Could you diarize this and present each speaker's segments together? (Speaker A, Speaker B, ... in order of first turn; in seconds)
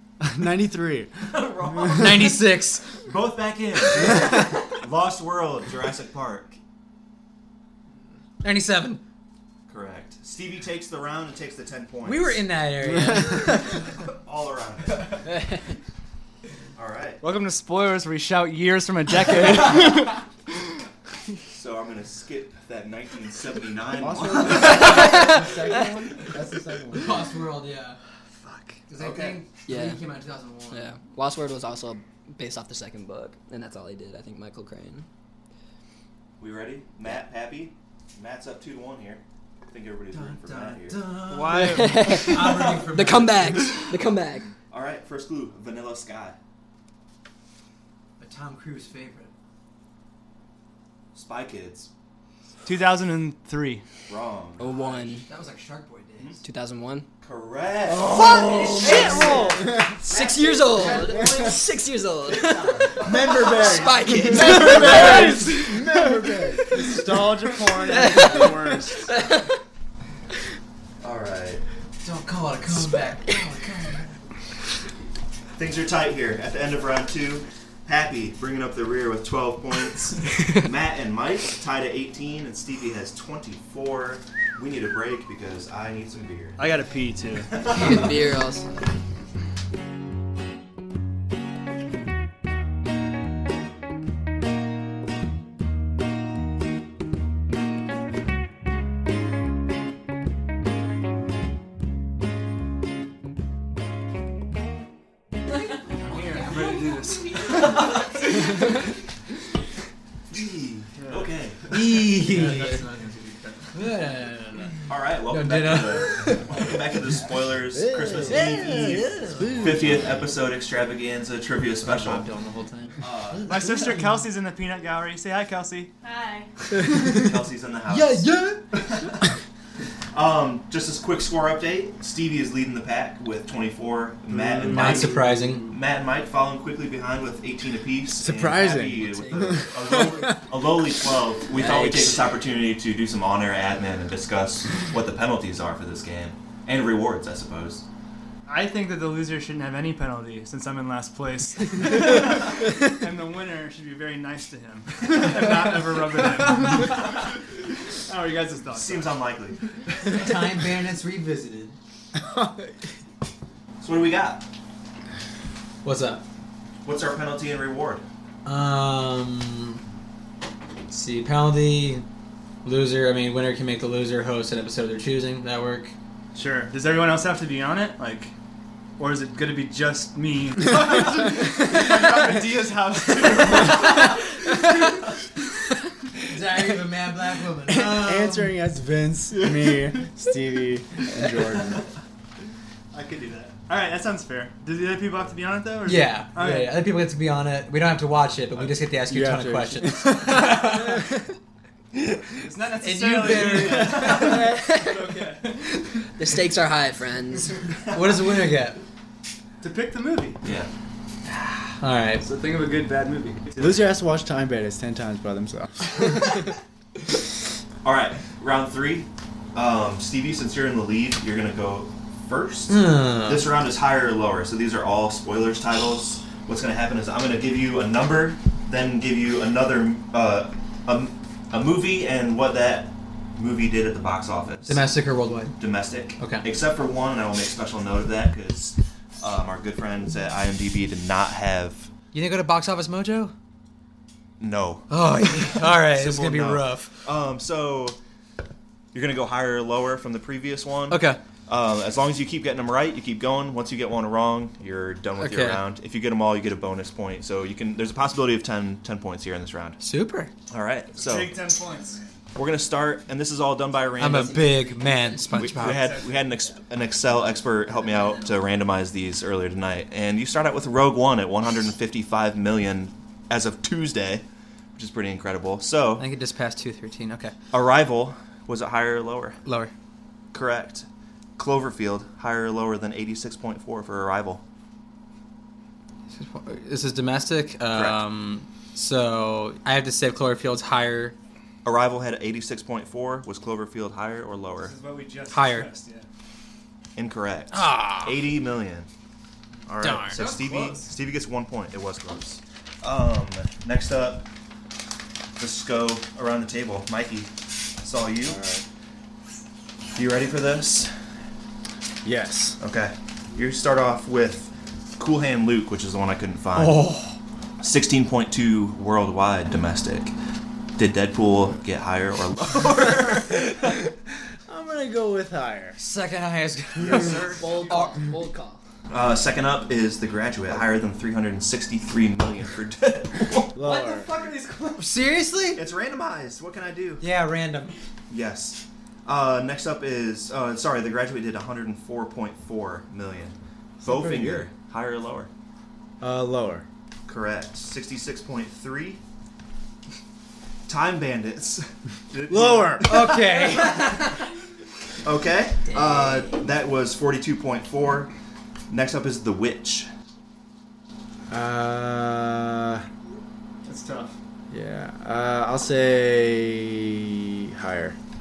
Speaker A: 0.2-2.4, 12.9-13.2, 23.9-27.3, 57.9-60.0, 60.9-61.5, 63.0-69.1, 117.7-118.7, 119.4-120.0, 128.2-128.6, 134.3-135.7, 138.1-140.6, 162.2-162.7, 180.8-183.9, 187.7-191.8, 199.1-201.1, 203.5-204.3, 213.6-216.4, 308.2-308.6, 312.0-312.6, 324.5-325.8, 333.5-334.1, 343.8-344.5, 346.0-346.6, 352.3-352.9, 361.3-362.9, 364.5-367.9
Speaker B: 1.2-2.4, 3.0-6.6, 9.7-12.5, 13.4-15.4, 16.7-17.2, 21.5-25.4, 28.9-29.4, 36.4-41.1, 42.4-42.7, 44.7-46.4, 51.1-51.9, 54.1-54.8, 57.2-59.4, 62.8-65.0, 71.0-71.6, 75.5-86.8, 87.5-88.1, 107.7-108.1, 110.3-112.0, 114.9-122.3, 123.0-123.6, 127.0-129.2, 130.1-147.8, 158.7-160.3, 163.8-164.4, 166.8-168.0, 207.9-208.3, 210.4-210.7, 217.8-234.9, 235.6-241.9, 244.4-248.0, 248.9-259.8, 260.5-261.5, 262.3-264.6, 265.4-276.1, 277.5-279.4, 280.3-284.4, 287.7-288.0, 291.6-294.8, 296.9-298.9, 299.7-304.3, 305.4-308.4, 309.9-310.9, 312.6-316.9, 317.6-320.1, 320.8-323.6, 326.8-327.8, 328.9-333.6, 335.5-337.1, 338.1-345.3, 347.1-349.0, 350.7-351.7, 353.1-353.6, 355.0-358.1, 358.7-359.9
Speaker C: 1.9-2.9, 8.4-9.0, 12.0-13.7, 26.9-28.0, 28.9-30.9, 40.1-43.8, 48.2-49.3, 55.2-56.4, 58.1-61.6, 72.0-74.1, 111.7-112.9, 113.7-116.7, 119.1-120.0, 121.8-124.2, 127.9-128.6, 134.7-135.7, 160.1-161.8, 165.8-166.2, 168.4-169.8, 170.9-172.0, 172.6-175.9, 186.3-188.6, 195.8-201.0, 202.8-204.5, 207.9-208.8, 211.8-212.2, 222.7-223.5, 234.7-235.5, 236.2-236.4, 242.1-243.3, 244.9-247.0, 250.9-251.2, 255.2-255.6, 259.8-260.3, 264.0-265.9, 276.0-277.3, 279.4-279.7, 286.1-291.1, 295.3-295.7, 297.5-298.3, 299.8-300.2, 316.5-317.2, 325.8-328.0, 334.8-335.6, 337.0-337.8, 352.8-354.1
Speaker D: 17.2-20.2, 28.4-28.8, 41.2-42.2, 52.6-53.8, 58.8-59.6, 68.2-69.1, 86.6-87.6, 105.9-107.8, 111.0-111.3, 112.2-113.6, 123.4-125.9, 148.5-157.4, 157.9-159.2, 176.3-178.3, 179.0-184.3, 189.3-190.0, 192.9-196.8, 198.5-198.8, 202.4-205.8, 209.6-210.4, 212.2-213.9, 261.0-262.1, 265.5-266.2, 294.6-296.1, 300.1-300.9, 333.6-334.9, 352.1-352.9, 363.6-364.1
Speaker E: 24.6-25.7, 29.7-30.0, 30.7-35.0, 41.5-44.5, 54.6-55.2, 56.4-57.1, 58.4-59.3, 60.0-65.8, 67.7-69.6, 87.7-88.7, 118.2-119.9, 138.7-139.7, 141.5-142.3, 204.3-205.1, 206.1-207.6, 264.0-264.5, 327.2-328.6, 355.6-356.4
Speaker F: 105.8-108.5, 126.0-126.5